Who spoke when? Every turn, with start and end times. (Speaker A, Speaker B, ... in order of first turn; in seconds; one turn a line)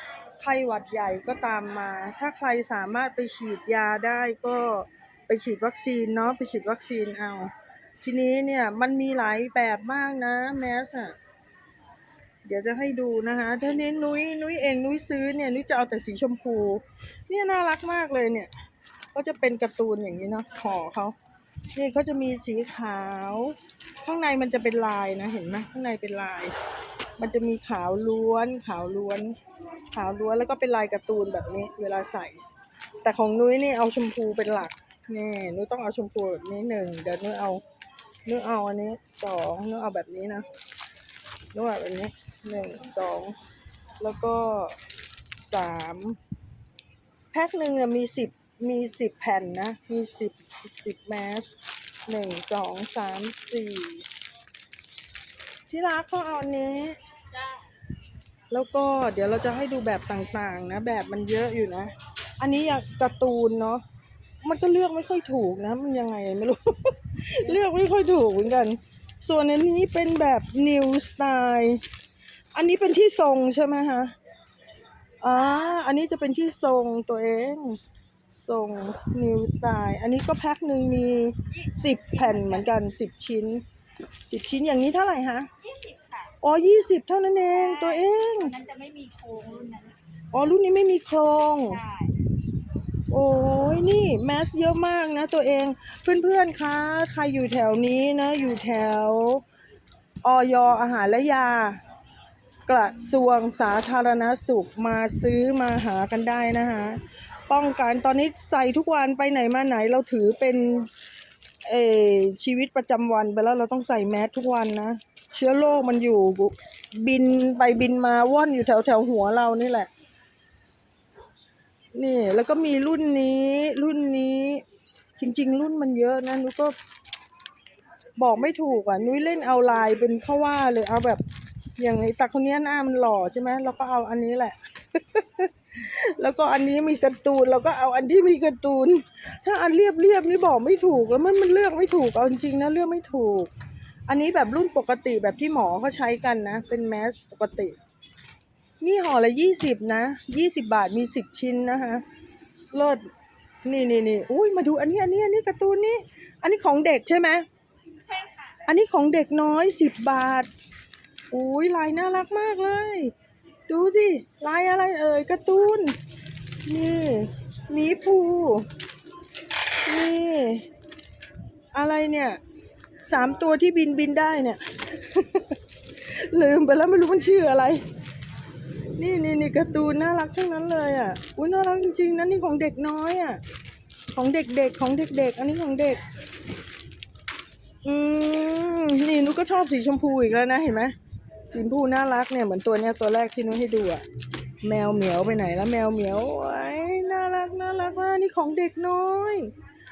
Speaker A: 0.4-7.5
Speaker A: 8.0-11.1
Speaker A: 12.4-18.5
Speaker A: 19.1-21.1
Speaker A: 21.7-26.5
Speaker A: 27.2-29.4
Speaker A: 29.9-32.4
Speaker A: 33.0-37.6
Speaker A: 38.3-40.5
Speaker A: 41.5-43.4
Speaker A: 44.0-46.2
Speaker A: 47.3-51.5
Speaker A: 52.1-54.1
Speaker A: 55.7-57.0
Speaker A: 58.5-63.8
Speaker A: 64.4-71.8
Speaker A: 72.5-74.1
Speaker A: 75.2-77.8
Speaker A: 78.3-83.6
Speaker B: 81.6-82.7
Speaker A: 84.2-85.5
Speaker B: 85.6-86.3
Speaker A: 86.4-88.5
Speaker B: 87.5-90.0
Speaker A: 90.3-91.8
Speaker B: 91.7-92.1
Speaker A: 93.1-99.4
Speaker A: 100.2-101.8
Speaker A: 102.7-110.9
Speaker A: 111.6-119.9
Speaker A: 121.9-124.6
Speaker A: 125.2-126.8
Speaker A: 128.2-131.2
Speaker A: 131.8-143.5
Speaker A: 144.1-147.8
Speaker A: 148.8-152.0
Speaker A: 152.7-153.0
Speaker A: 153.7-157.4
Speaker B: 158.1-158.5
Speaker A: 158.6-160.5
Speaker A: 161.3-163.1
Speaker A: 163.7-166.0
Speaker A: 166.7-168.7
Speaker A: 169.8-170.7
Speaker A: 171.7-172.4
Speaker A: 173.0-177.8
Speaker A: 179.0-183.4
Speaker A: 184.1-186.0
Speaker A: 187.8-194.0
Speaker A: 194.6-199.5